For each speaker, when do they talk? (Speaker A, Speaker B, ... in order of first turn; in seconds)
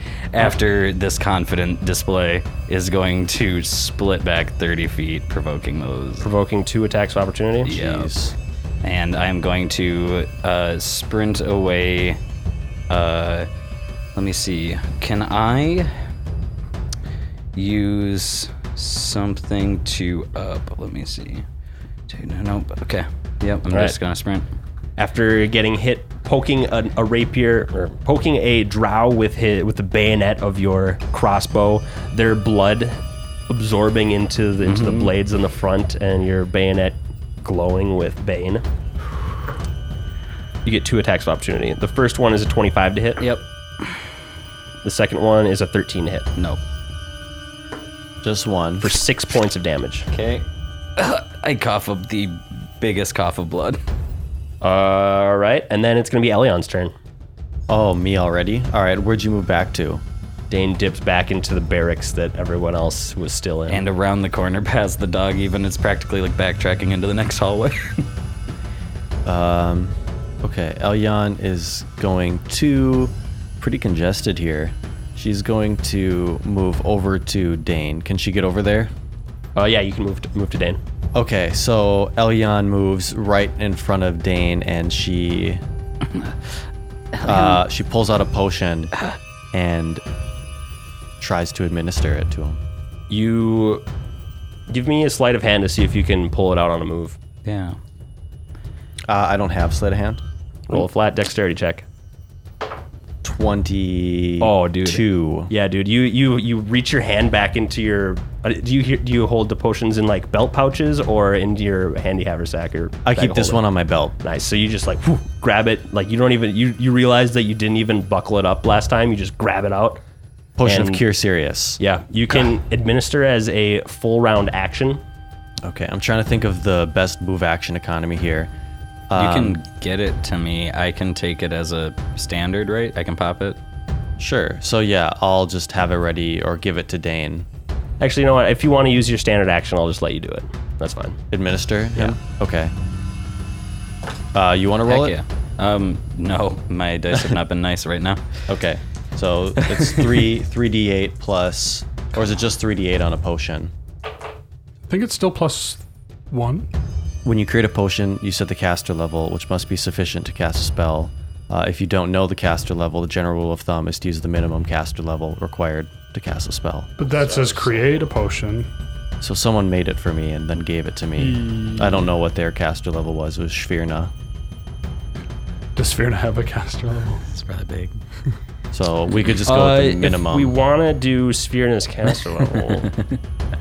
Speaker A: 0.3-6.2, 7.7-8.2, 8.8-12.2, 12.9-13.5, 14.2-15.9, 17.6-21.4, 22.1-24.5, 34.6-35.1, 50.1-50.5, 51.0-53.8, 63.7-68.1, 87.1-87.6, 97.4-97.8, 129.2-133.6, 144.9-148.4, 149.6-150.3, 177.3-178.0, 182.6-183.2
Speaker B: 6.2-7.7, 23.7-23.9, 25.0-38.6, 40.6-43.2, 44.8-46.3, 48.8-50.1, 54.6-56.9, 60.5-63.8, 79.6-80.8, 93.1-93.8, 94.7-97.2, 100.7-101.8, 104.4-113.6, 114.2-120.0, 120.7-121.0, 121.8-125.0, 138.0-141.2, 167.1-167.8, 179.5-182.9
Speaker C: 7.7-8.3, 48.2-48.9, 57.7-60.0, 69.2-78.9, 81.1-85.6, 87.2-88.9, 89.5-90.0, 91.2-92.6, 99.1-100.2, 103.2-105.5, 113.0-114.2, 120.6-121.8, 125.6-128.5, 129.1-129.6, 134.2-137.5, 141.3-142.7, 144.3-145.2, 148.5-153.7, 157.2-166.9, 169.2-174.1, 178.7-180.6
Speaker D: 154.9-156.7, 167.0-168.7, 171.2-172.1, 175.8-177.2